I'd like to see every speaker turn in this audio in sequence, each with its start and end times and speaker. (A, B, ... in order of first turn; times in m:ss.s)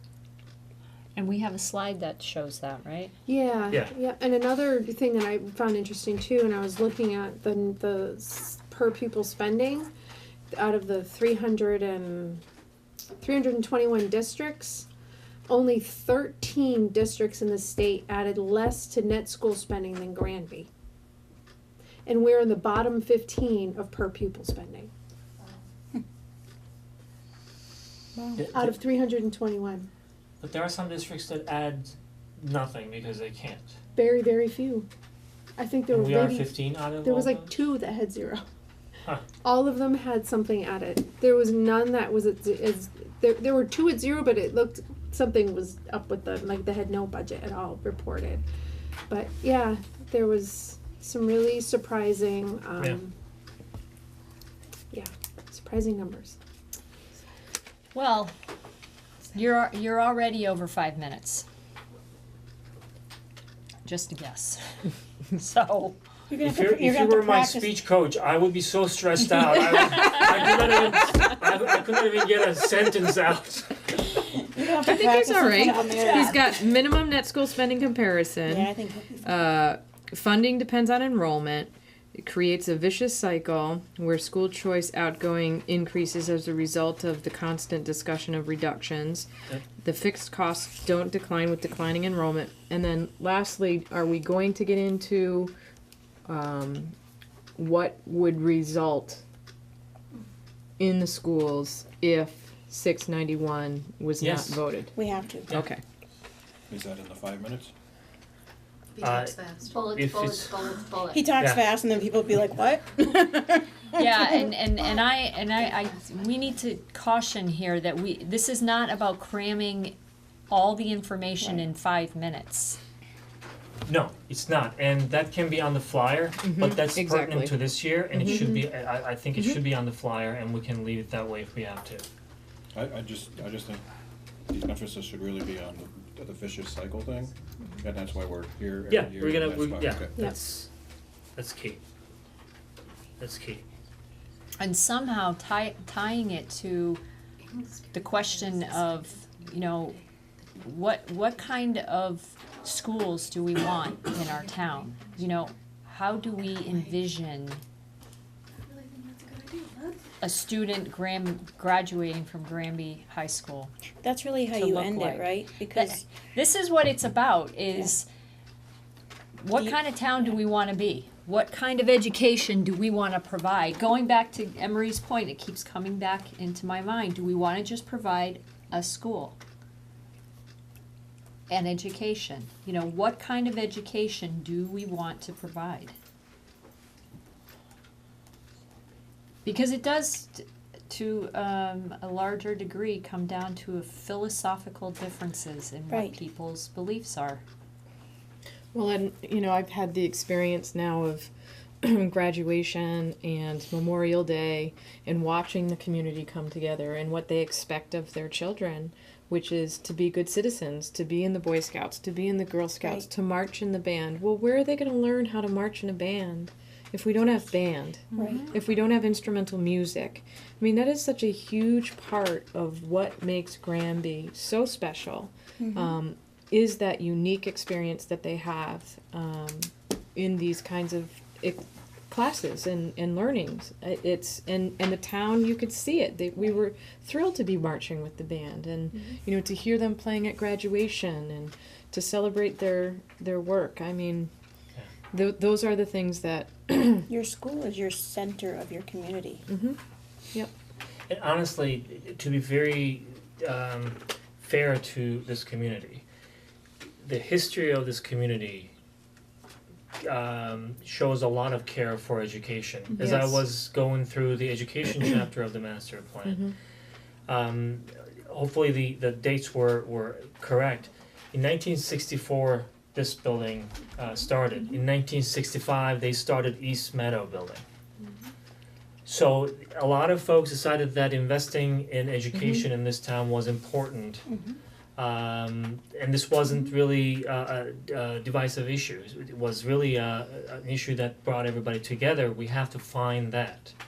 0:01.1-0:03.1 A
0:03.2-0:09.9 B
0:10.5-0:12.4 B
0:13.2-0:14.9 B
0:15.5-0:20.7 B
0:22.0-0:24.9 B
0:28.4-0:28.8 C
0:28.5-0:29.9 B
0:30.4-0:33.8 C
0:33.9-0:34.9 B
0:35.6-0:38.4 B
0:35.9-0:37.6 C
0:39.4-0:48.4 B
0:49.1-0:53.1 B
0:54.9-0:56.4 B
0:57.9-0:58.3 A
0:59.3-1:01.4 A
1:03.8-1:06.0 A
1:06.3-1:07.8 D
1:06.4-1:13.9 C
1:14.2-1:16.2 D
1:14.8-1:35.5 E
1:15.6-1:16.4 A
1:18.4-1:19.2 D
1:36.2-1:36.9 E
1:37.6-1:39.2 E
1:40.8-1:45.8 E
1:44.2-1:44.6 C
1:45.0-1:45.5 D
1:46.7-1:47.7 F
1:49.0-1:50.7 C
1:49.0-1:51.4 G
1:51.1-1:53.6 D
1:51.4-1:51.6 C
1:53.9-2:00.0 A
2:00.5-2:02.8 A
2:03.8-2:12.1 C
2:06.4-2:08.7 E
2:09.4-2:09.6 E
2:12.7-2:13.8 F
2:14.5-2:20.3 F
2:18.9-2:20.7 C
2:21.4-2:21.8 C
2:23.2-2:23.6 C
2:24.6-2:27.0 A
2:27.9-2:30.0 A
2:30.6-2:37.6 A
2:38.8-2:40.0 G
2:40.2-2:43.7 A
2:44.0-2:45.9 D
2:44.5-2:48.1 A
2:49.4-2:59.4 A
3:01.5-3:05.9 A
3:09.4-3:17.4 A
3:15.9-3:16.2 D
3:18.7-3:21.3 E
3:21.8-4:04.3 E
3:38.2-3:38.4 D
3:45.6-3:45.9 D
4:05.1-4:07.1 E
4:07.1-4:09.4 D
4:09.5-4:09.8 E
4:11.1-4:16.0 C
4:17.0-4:18.7 C
4:20.0-4:26.4 C
4:22.9-4:23.4 E
4:26.2-4:26.5 E
4:27.3-4:37.6 C
4:39.0-4:44.2 C
4:42.3-4:42.6 E
4:44.3-4:44.6 D
4:45.0-4:53.7 C